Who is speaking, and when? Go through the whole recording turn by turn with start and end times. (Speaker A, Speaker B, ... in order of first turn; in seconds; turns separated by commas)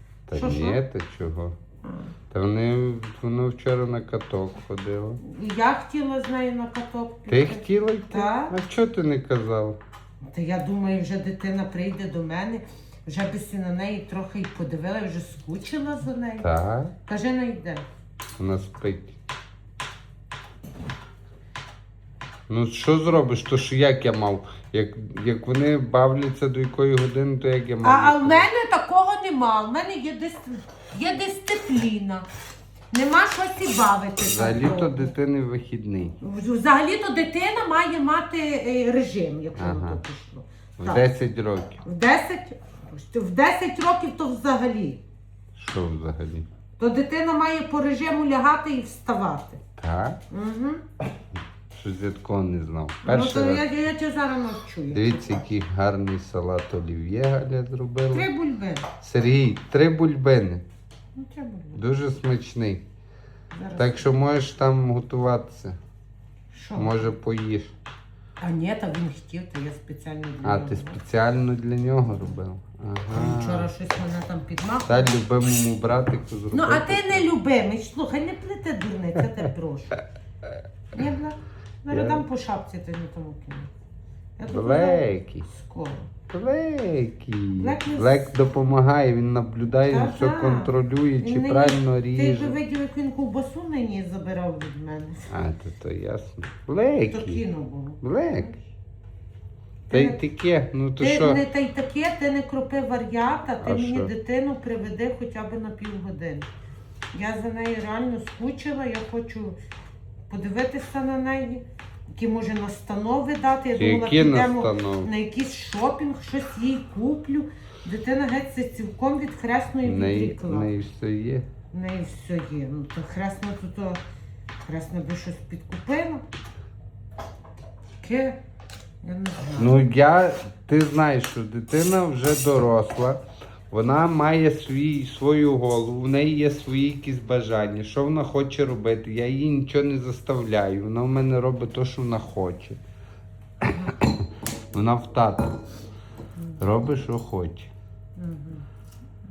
Speaker A: 0.3-1.6, Speaker B: 0.3-0.8, Speaker B: 1.8-2.1, Speaker A: 2.3-5.2, Speaker B: 5.2-8.6, Speaker A: 7.3-9.8, Speaker B: 10.3-16.5, Speaker A: 16.4-16.9, Speaker B: 17.1-17.8, Speaker A: 18.4-19.2, Speaker A: 22.5-28.5, Speaker B: 27.8-32.3, Speaker B: 32.9-35.1, Speaker A: 34.2-36.2, Speaker B: 36.2-41.0, Speaker A: 39.5-40.0, Speaker A: 40.8-41.8, Speaker B: 41.8-45.0, Speaker A: 45.5-46.5, Speaker B: 46.8-49.6, Speaker A: 49.8-50.2, Speaker B: 50.3-50.8, Speaker A: 51.7-53.6, Speaker B: 53.0-55.4, Speaker A: 54.9-58.3, Speaker B: 58.1-58.9, Speaker A: 59.0-60.6, Speaker B: 61.1-61.8, Speaker A: 61.7-62.8, Speaker B: 63.5-64.1, Speaker A: 63.8-65.8, Speaker B: 66.5-67.1, Speaker A: 66.7-67.7, Speaker B: 68.4-71.0, Speaker A: 70.4-73.7, Speaker B: 73.1-75.1, Speaker A: 74.8-77.2, Speaker B: 76.5-80.0, Speaker B: 80.9-83.7, Speaker A: 81.9-82.2, Speaker B: 84.4-86.1, Speaker A: 84.5-85.5, Speaker A: 86.3-92.6, Speaker B: 87.5-88.2, Speaker B: 89.9-95.3, Speaker A: 95.3-97.4, Speaker B: 97.1-98.5, Speaker A: 98.0-98.5, Speaker B: 99.9-100.2, Speaker A: 99.9-101.4, Speaker B: 101.0-106.5, Speaker A: 103.6-104.1, Speaker B: 107.1-109.6, Speaker B: 110.3-111.6, Speaker B: 112.2-120.8, Speaker A: 113.8-115.1, Speaker A: 119.8-121.5, Speaker B: 121.7-124.0, Speaker B: 124.6-126.2, Speaker B: 128.0-128.4, Speaker B: 129.0-129.8, Speaker A: 129.6-133.2, Speaker A: 133.7-142.8, Speaker A: 144.0-145.6, Speaker A: 146.6-147.7, Speaker B: 148.2-148.6